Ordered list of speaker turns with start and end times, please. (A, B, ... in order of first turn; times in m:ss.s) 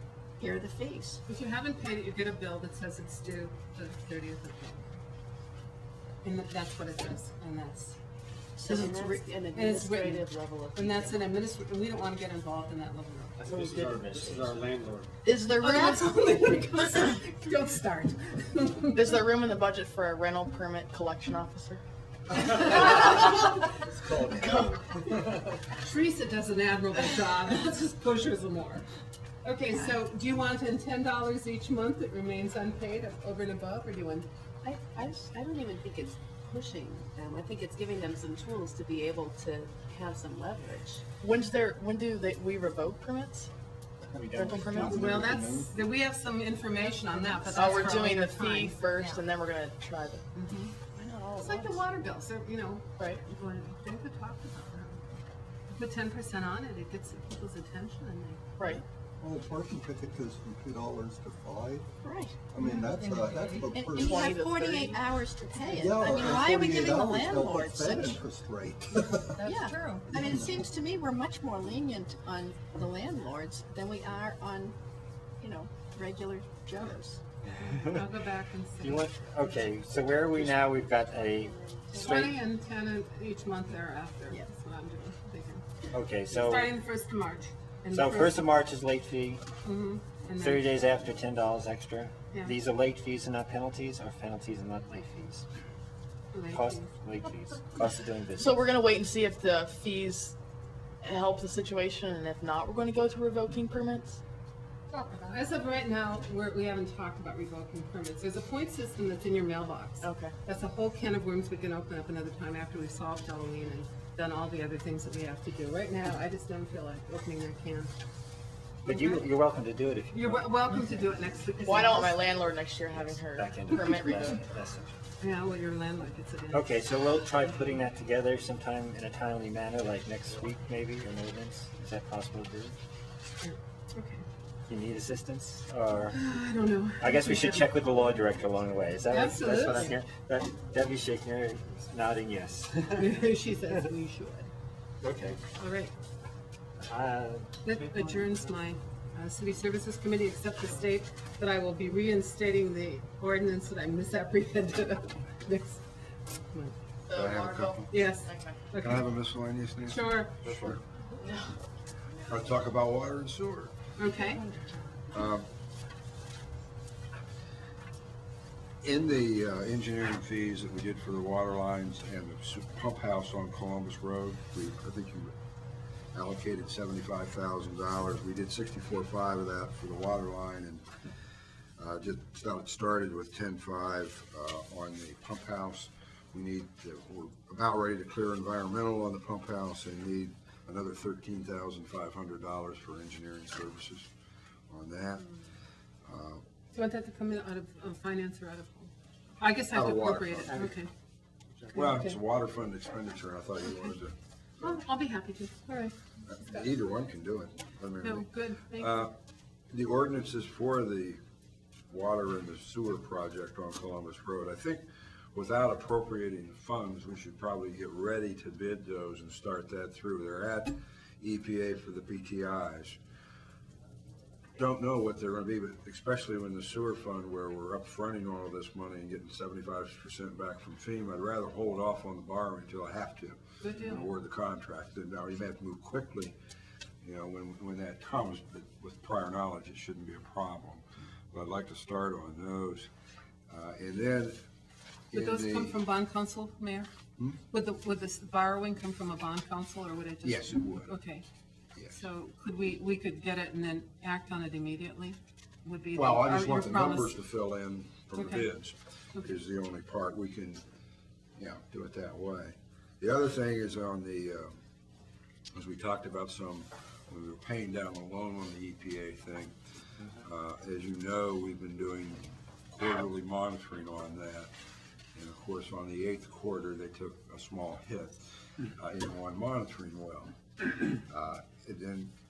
0:00.4-0:01.2 A
0:01.2-0:05.0 B
0:06.2-0:08.0 B
0:08.6-0:09.2 A
0:08.7-0:11.2 C
0:09.5-0:13.5 B
0:13.4-0:14.5 D
0:13.5-0:14.5 E
0:13.5-0:15.1 F
0:15.2-0:16.6 E
0:15.5-0:19.2 B
0:18.9-0:21.8 E
0:22.5-0:24.8 E
0:24.2-0:24.5 G
0:25.8-0:28.8 B
0:29.4-0:34.3 B
0:34.6-0:41.0 C
0:41.2-0:43.5 E
0:44.1-0:45.7 G
0:44.2-0:44.7 F
0:44.3-0:45.2 E
0:44.7-0:49.2 B
0:47.5-0:50.2 E
0:50.4-0:51.8 A
0:51.4-0:55.0 B
0:55.7-0:58.8 B
0:58.6-0:58.8 E
0:59.2-1:01.9 G
1:02.0-1:02.4 A
1:02.5-1:04.2 G
1:02.6-1:03.7 B
1:03.7-1:08.2 A
1:04.0-1:05.0 E
1:05.7-1:09.6 G
1:09.4-1:10.1 B
1:09.4-1:14.8 A
1:10.1-1:10.6 G
1:15.4-1:17.2 A
1:17.6-1:18.1 D
1:17.9-1:19.1 B
1:18.8-1:22.4 D
1:20.4-1:22.1 A
1:21.9-1:25.6 B
1:25.9-1:26.7 D
1:26.3-1:28.5 B
1:27.9-1:29.4 D
1:29.6-1:30.7 B
1:30.4-1:35.4 D
1:36.3-1:36.9 B
1:36.5-1:38.7 D
1:38.4-1:40.3 E
1:41.0-1:44.2 E
1:44.9-1:57.9 B
1:50.0-1:50.3 E
1:58.8-2:00.6 D
1:58.9-1:59.2 B
2:00.1-2:02.2 B
2:01.6-2:04.4 E
2:02.9-2:04.9 D
2:05.2-2:06.7 B
2:06.5-2:12.8 D
2:13.4-2:14.2 B
2:14.7-2:16.2 D
2:16.1-2:17.7 B
2:17.0-2:23.1 D
2:19.1-2:20.0 B
2:23.0-2:24.5 B
2:25.0-2:25.4 D
2:25.6-2:25.9 B
2:26.8-2:27.6 D
2:27.6-2:35.8 B
2:36.5-2:36.8 B
2:37.0-2:38.6 E
2:37.1-2:37.9 H
2:37.9-2:39.0 B
2:38.8-2:40.8 H
2:39.8-2:40.6 B
2:41.2-2:41.5 E
2:42.3-2:43.7 H
2:44.0-2:44.4 B
2:45.1-2:45.5 H
2:48.8-2:55.3 H
2:56.1-3:00.8 H
3:01.8-3:14.1 H
3:14.7-3:15.3 H
3:16.0-3:16.4 H
3:16.7-3:20.9 B
3:19.7-3:20.5 H
3:20.4-3:20.7 D
3:21.6-3:21.9 D
3:21.7-3:22.2 B
3:21.7-3:24.1 H
3:23.6-3:23.9 B
3:24.6-3:25.9 B
3:26.3-3:29.1 H
3:28.0-3:29.1 B
3:29.7-3:31.2 H
3:31.9-3:43.0 H
3:44.6-3:56.4 H
3:53.6-3:54.0 B
3:57.0-4:02.9 H
4:03.5-4:04.4 H
4:05.1-4:05.8 H
4:05.1-4:06.9 B
4:07.5-4:11.2 B
4:10.2-4:11.0 H
4:11.9-4:17.2 B
4:15.9-4:20.6 H
4:18.2-4:18.4 B
4:21.4-4:24.6 H
4:25.5-4:29.5 H
4:30.2-4:34.5 H
4:35.1-4:38.2 H
4:38.7-4:40.3 H
4:41.0-4:42.1 H